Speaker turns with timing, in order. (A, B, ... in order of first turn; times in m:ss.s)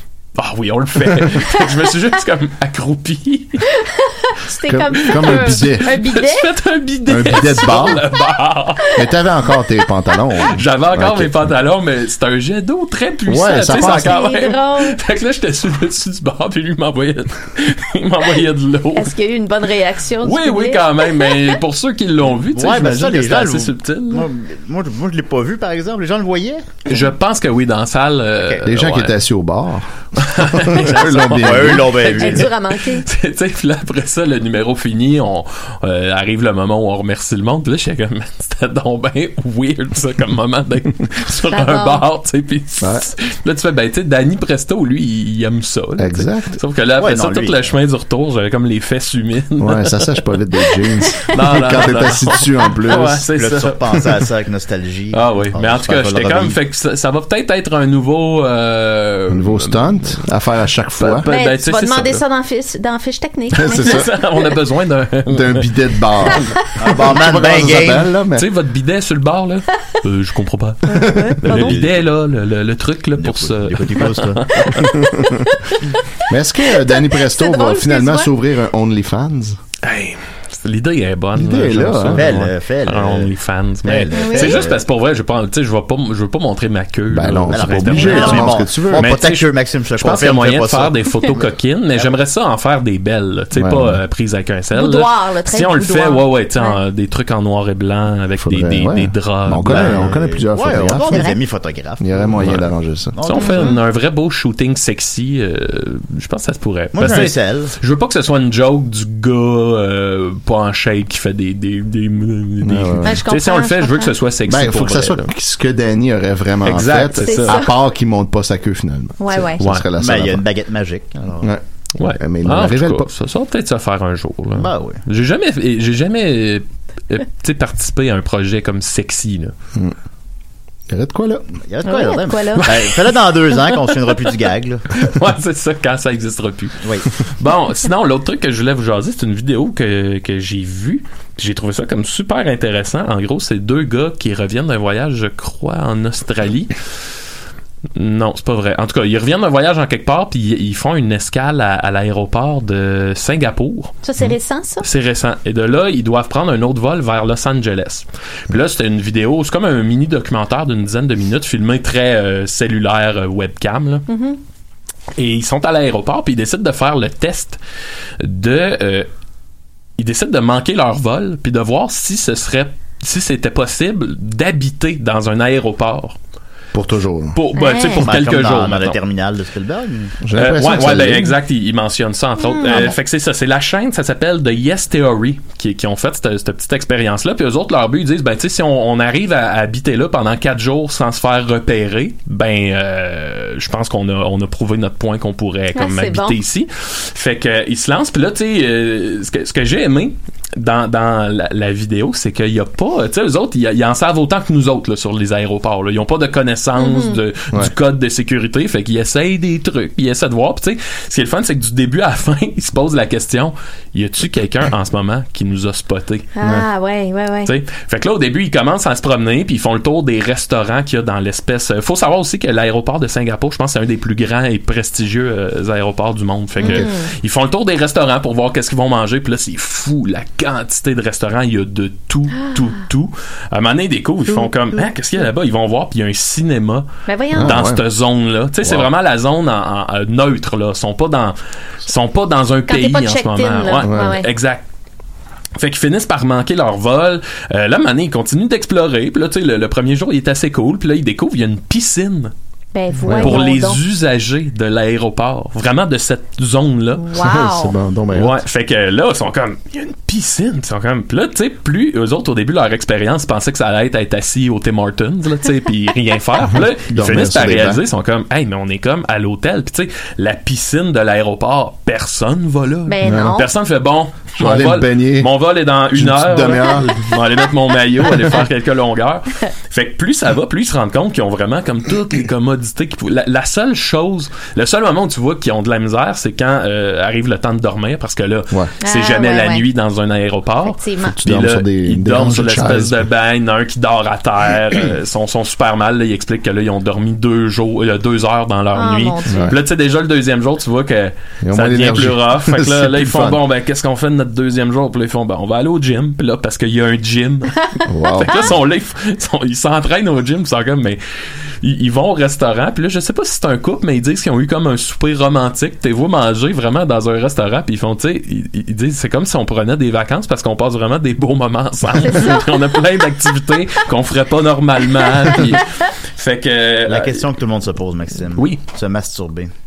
0:00.4-0:03.7 A
0:03.9-0:06.5 B
0:04.7-0:05.9 C
0:05.2-0:08.9 A
0:07.1-0:08.0 C
0:09.0-0:11.5 C
0:10.5-0:19.2 A
0:13.3-0:14.2 C
0:13.7-0:15.0 B
0:19.0-0:21.4 B
0:20.2-0:24.3 A
0:22.5-0:26.9 D
0:26.9-0:29.2 A
0:28.6-0:32.1 C
0:30.2-0:32.5 A
0:30.8-0:32.5 D
0:32.1-0:33.1 B
0:33.0-0:50.2 A
0:41.5-0:42.0 B
0:46.0-0:46.6 C
0:47.0-0:47.7 D
0:49.6-0:53.2 C
0:51.2-0:54.0 A
0:53.3-0:56.6 D
0:55.1-1:00.2 A
0:59.3-1:01.3 C
1:01.0-1:02.2 A
1:01.3-1:04.0 B
1:03.5-1:04.1 C
1:03.8-1:05.7 A
1:05.3-1:08.5 C
1:06.8-1:08.1 D
1:08.4-1:15.0 A
1:10.9-1:11.8 B
1:11.0-1:11.4 C
1:11.5-1:12.1 D
1:13.2-1:14.7 D
1:14.9-1:15.4 C
1:15.3-1:15.8 B
1:16.3-1:19.6 C
1:16.7-1:18.3 B
1:19.8-1:40.1 A
1:21.4-1:22.3 C
1:22.1-1:23.3 D
1:23.8-1:24.8 D
1:24.1-1:24.6 B
1:27.1-1:29.2 C
1:27.5-1:32.2 D
1:28.0-1:28.4 B
1:33.6-1:34.0 C
1:34.7-1:36.8 B
1:38.4-1:41.3 C
1:39.6-1:43.8 D
1:40.9-1:41.4 B
1:42.0-1:43.2 C
1:43.2-1:55.3 A
1:43.4-1:43.8 B
1:46.9-1:47.7 D
1:52.6-1:53.2 C
1:53.0-1:54.1 B
1:54.5-2:00.4 C
1:56.6-1:57.7 A
1:57.2-1:57.7 B
1:59.2-1:59.6 B
1:59.6-1:59.9 A
2:00.0-2:01.5 D
2:01.4-2:03.1 C
2:02.0-2:09.5 A
2:04.6-2:05.0 D
2:10.9-2:11.5 C
2:11.5-2:14.9 D
2:11.8-2:12.7 B
2:12.7-2:13.2 A
2:15.0-2:26.8 A
2:16.8-2:17.1 D
2:28.0-2:34.0 A
2:34.0-2:34.9 B
2:34.8-2:44.1 A
2:44.1-2:44.4 B
2:45.2-2:47.6 A
2:48.2-2:49.1 A
2:50.0-2:56.2 A
2:56.7-2:57.4 C
2:57.3-2:59.0 A
2:57.6-2:58.1 B
2:58.0-3:00.2 D
3:00.2-3:01.4 C
3:00.4-3:36.3 A
3:02.4-3:02.9 B
3:15.8-3:16.4 B
3:26.8-3:27.2 B
3:36.4-3:37.5 B
3:37.5-4:04.6 A
3:46.6-3:46.9 C
3:46.6-3:47.1 B
3:52.4-3:52.7 B
3:57.1-3:57.6 B
3:57.4-3:57.8 C
3:58.6-3:58.9 C
4:02.7-4:04.3 B
4:03.8-4:04.2 C
4:05.6-4:12.3 A
4:12.7-4:13.8 B
4:13.0-4:13.4 C
4:13.2-4:17.1 A
4:17.0-4:17.8 B
4:17.2-4:18.4 C
4:18.1-5:11.0 A
4:26.9-4:27.8 C
4:32.9-4:33.5 B
4:33.0-4:33.4 C
4:34.4-4:35.3 C
4:35.9-4:37.1 C
4:48.8-4:49.6 B
4:50.7-4:51.2 B
4:51.1-4:53.1 C
4:58.8-4:59.5 B
4:59.3-4:59.6 C
5:01.4-5:03.4 C
5:07.9-5:08.6 C
5:11.6-5:27.3 A
5:22.0-5:22.6 B
5:26.9-5:29.5 D